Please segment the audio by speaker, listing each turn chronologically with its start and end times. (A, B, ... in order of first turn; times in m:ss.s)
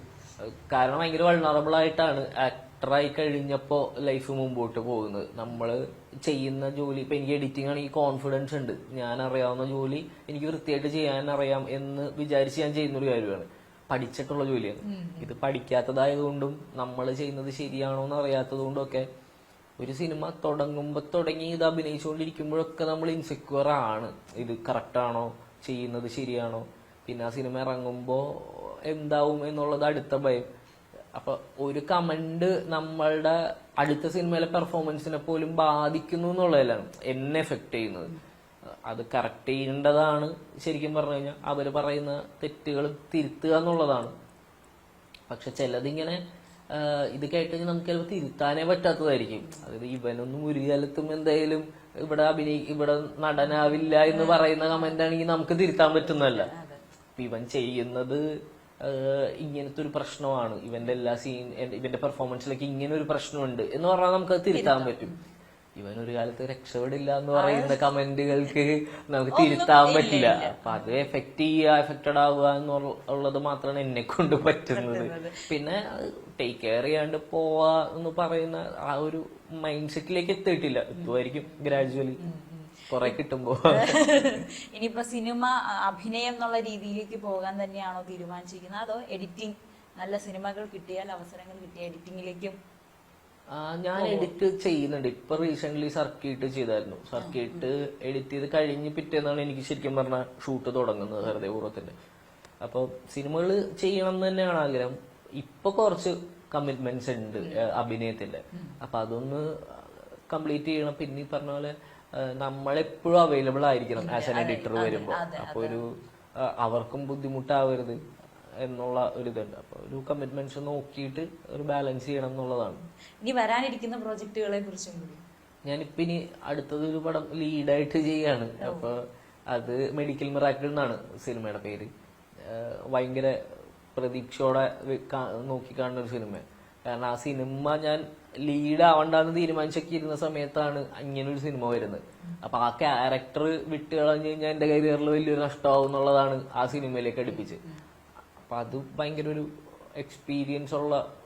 0:00.4-0:19.0 A
0:14.8-0:15.3 B
0:19.8-0:30.4 A
0:31.1-0:38.1 A
0:38.9-0:44.1 A
0:45.3-0:46.2 A
0:46.7-0:56.5 A
0:49.4-0:49.7 B
0:54.0-0:55.0 B
0:56.0-0:56.8 B
0:57.2-0:58.2 A
0:58.8-1:05.1 A
1:04.5-1:05.2 B
1:05.8-1:22.2 A
1:07.4-1:07.9 B
1:09.3-1:10.9 B
1:14.7-1:15.4 B
1:21.0-1:23.2 B
1:22.9-1:24.4 A
1:23.7-1:32.6 B
1:33.5-1:41.9 A
1:33.9-1:34.3 B
1:37.2-1:37.7 B
1:42.6-1:55.9 A
1:54.0-1:55.8 B
1:56.4-1:58.0 A
1:58.6-2:02.8 A
2:03.2-2:05.2 B
2:05.6-2:11.9 A
2:08.6-2:08.9 B
2:12.4-2:13.4 A
2:13.9-2:27.6 A
2:27.3-2:27.8 B
2:28.4-2:29.5 A
2:30.0-2:31.0 A